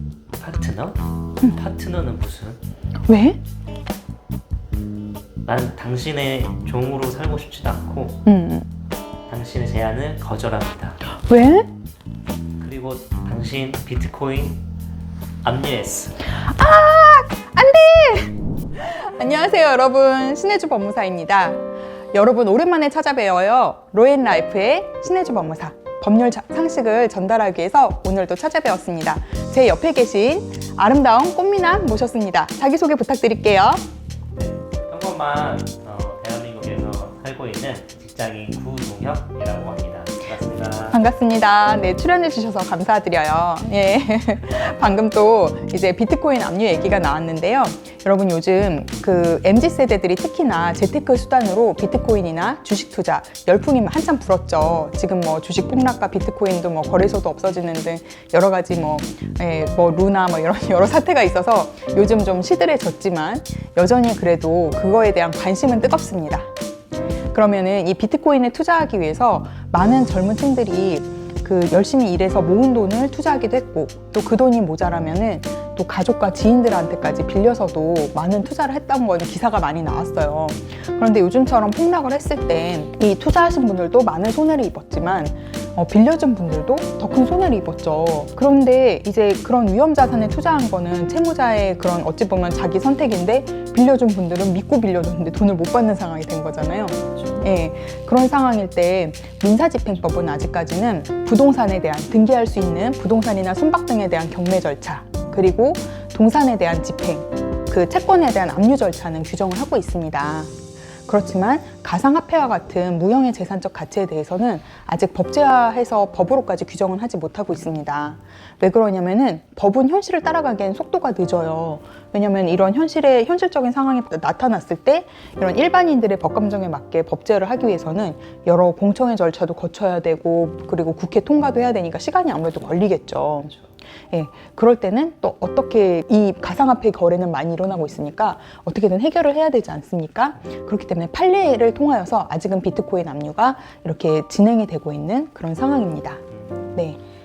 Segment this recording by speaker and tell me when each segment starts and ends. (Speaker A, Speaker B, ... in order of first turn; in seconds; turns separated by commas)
Speaker A: 0.3-2.6, Speaker B: 3.1-3.4, Speaker A: 5.5-8.2, Speaker B: 8.3-8.7, Speaker A: 9.3-11.0, Speaker B: 11.1-11.7, Speaker A: 12.6-14.6, Speaker A: 15.4-16.2, Speaker B: 16.2-21.6, Speaker B: 22.1-33.8, Speaker A: 34.4-41.0, Speaker B: 40.9-66.5, Speaker B: 67.3-110.5, Speaker B: 111.1-133.5, Speaker B: 134.1-146.2, Speaker A: 146.3-146.8